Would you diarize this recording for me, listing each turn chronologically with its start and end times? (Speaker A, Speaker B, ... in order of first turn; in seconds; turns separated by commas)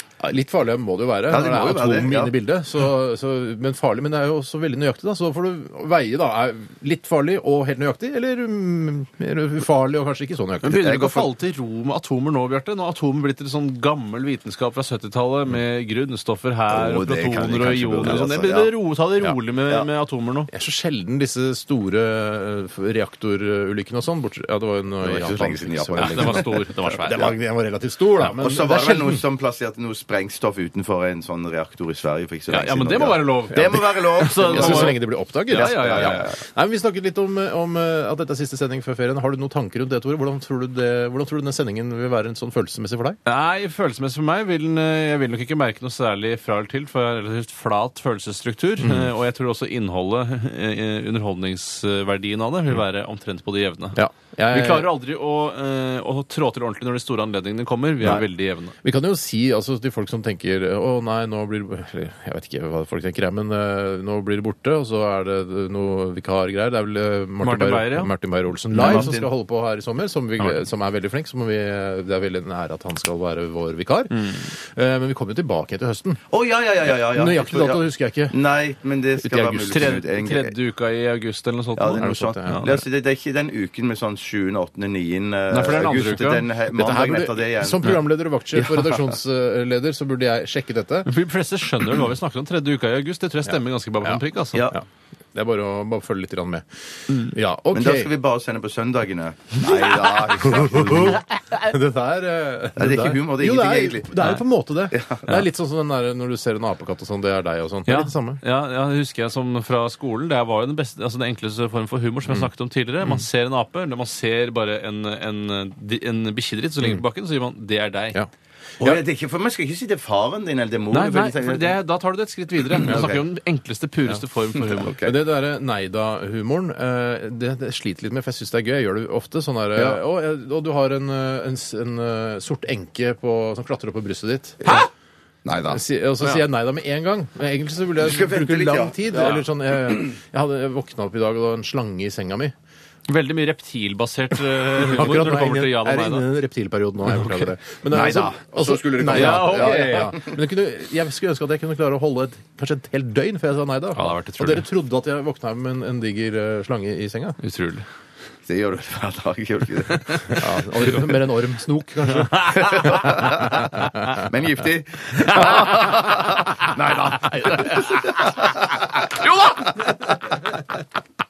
Speaker A: 0.2-10.9, Speaker B: 1.3-2.3, Speaker C: 10.6-20.5, Speaker B: 10.7-11.3, Speaker B: 16.7-18.7, Speaker A: 20.5-26.5, Speaker B: 25.0-27.2, Speaker C: 26.0-27.3, Speaker A: 27.0-29.2, Speaker B: 28.2-35.0, Speaker C: 32.5-36.3, Speaker A: 34.3-43.2, Speaker B: 35.6-36.4, Speaker C: 43.2-54.0, Speaker A: 48.8-49.1, Speaker A: 54.0-54.9, Speaker C: 54.5-58.8, Speaker A: 58.8-76.2, Speaker C: 67.4-68.1, Speaker B: 68.7-69.3, Speaker C: 68.8-69.1, Speaker C: 74.2-74.5, Speaker B: 76.3-80.5, Speaker A: 76.9-78.4, Speaker A: 79.2-80.0, Speaker C: 79.7-82.8, Speaker B: 81.8-88.0, Speaker A: 82.0-82.8, Speaker C: 85.5-86.5, Speaker A: 86.7-91.1, Speaker B: 88.6-89.0, Speaker C: 91.1-94.7, Speaker A: 94.0-98.1, Speaker B: 97.7-101.2, Speaker A: 100.4-108.4, Speaker B: 102.8-104.3, Speaker B: 104.9-105.4, Speaker C: 107.9-118.2, Speaker B: 118.8-121.8, Speaker C: 120.9-125.0, Speaker B: 122.7-123.2, Speaker B: 124.8-125.1, Speaker A: 125.0-134.9, Speaker C: 134.6-134.9, Speaker B: 135.4-135.8, Speaker A: 135.7-142.5, Speaker B: 138.0-140.0, Speaker C: 143.1-146.2, Speaker A: 144.7-157.4, Speaker C: 147.1-147.4, Speaker B: 147.9-150.3, Speaker C: 149.1-150.1, Speaker C: 153.9-154.7, Speaker C: 157.4-157.8, Speaker B: 158.5-160.4, Speaker A: 160.3-163.5, Speaker C: 162.4-162.9, Speaker B: 162.5-169.7, Speaker C: 169.3-169.6